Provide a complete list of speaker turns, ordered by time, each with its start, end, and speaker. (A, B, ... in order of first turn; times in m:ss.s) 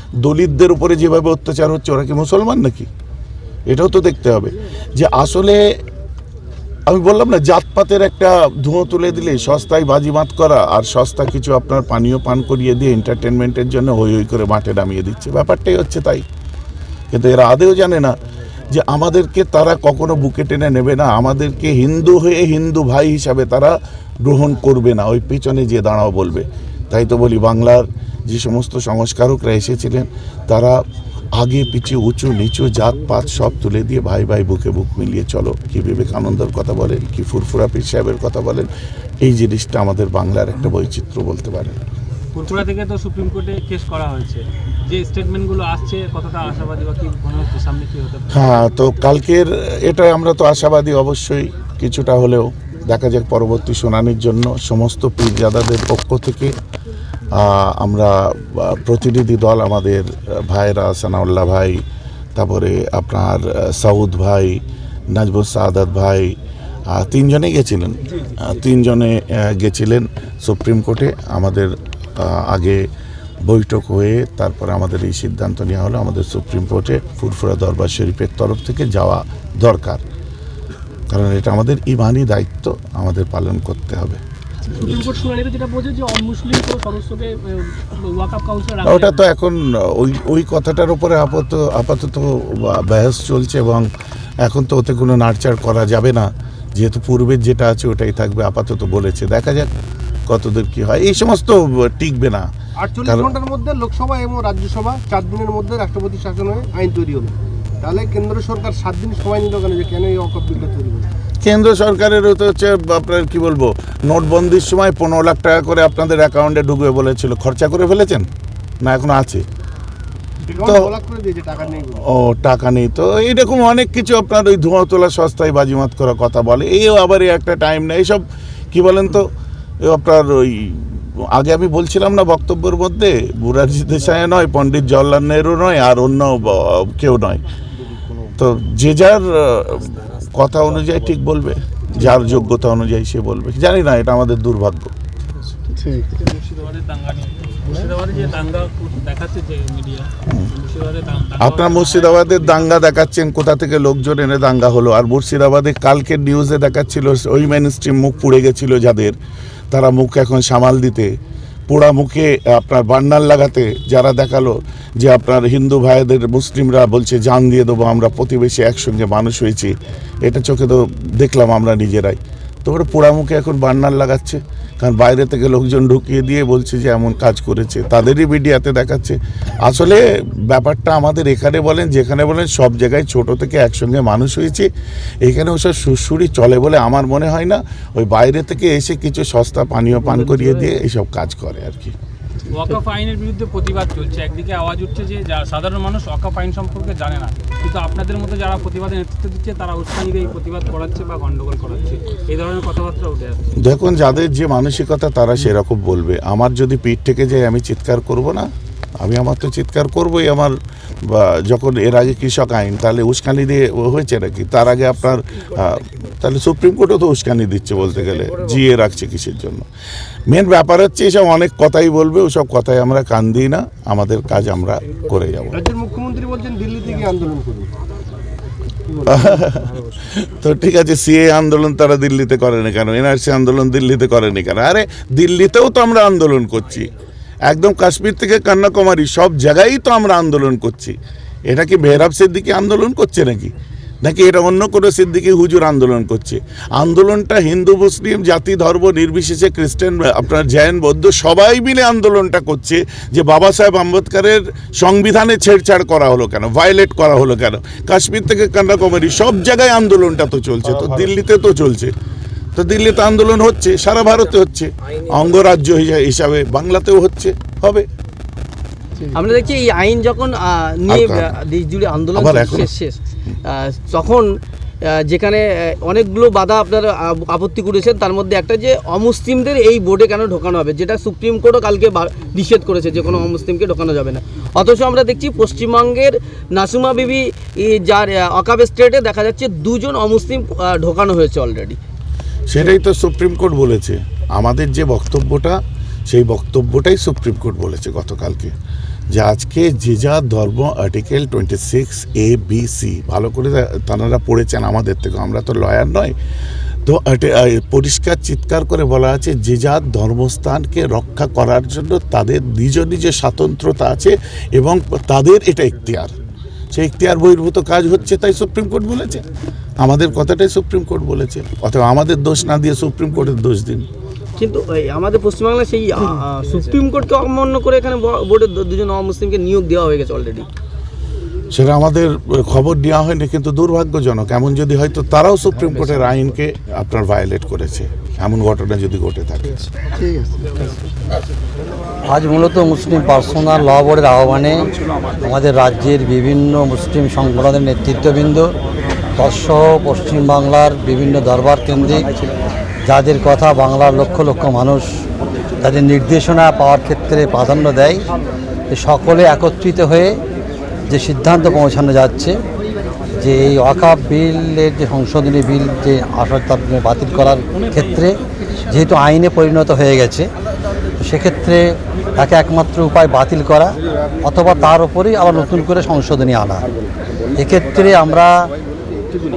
0:00.2-0:02.9 A
0:03.7-0:05.8 A
0:06.9-0:16.2 A
0:17.1-0:18.2 A
0:18.7-0:38.7 A
0:39.2-0:41.8 A
0:42.3-0:48.6 B
0:48.3-0:56.6 A
0:57.3-1:01.8 A
1:02.4-1:06.4 A
1:06.9-1:12.9 A
1:13.4-1:20.0 A
1:21.1-1:24.2 A
1:24.7-1:29.2 C
1:28.8-1:33.9 A
1:34.4-1:39.7 A
1:40.3-1:42.5 A
1:43.0-1:51.0 D
1:43.0-1:43.3 A
1:51.4-1:58.3 A
1:58.8-1:59.4 A
2:00.6-2:02.0 D
2:00.6-2:00.9 A
2:02.1-2:17.4 A
2:18.4-2:24.9 A
2:25.9-2:32.9 B
2:31.4-2:39.2 A
2:39.7-2:41.1 A
2:41.7-3:04.7 A
3:05.2-3:11.9 A
3:10.0-3:10.7 E
3:12.5-3:23.5 B
3:23.6-3:28.5 A
3:29.0-3:39.7 A
3:38.1-3:38.6 E
3:40.3-3:45.6 A
3:45.7-3:47.6 D
3:49.0-3:56.9 A
3:57.5-4:01.0 A
4:01.5-4:21.9 A
4:22.5-4:27.8 A
4:29.1-4:34.3 E
4:30.9-4:31.3 A
4:32.1-4:32.7 A
4:34.8-4:51.8 E
4:52.5-4:55.6 A
4:56.1-4:58.5 A
4:59.1-5:06.1 A
5:06.8-5:16.1 A
5:16.7-5:19.2 A
5:19.8-5:23.8 A
5:24.4-5:30.5 E
5:31.5-5:39.7 A
5:42.1-5:44.7 F
5:45.2-5:48.5 F
5:49.2-5:52.0 F
5:52.8-5:54.9 F
5:55.6-5:58.0 F
5:58.7-6:00.2 F
6:00.9-6:02.4 F
6:03.2-6:08.1 F
6:08.7-6:10.3 F
6:11.0-6:11.6 F
6:12.2-6:16.6 F
6:17.4-6:18.5 F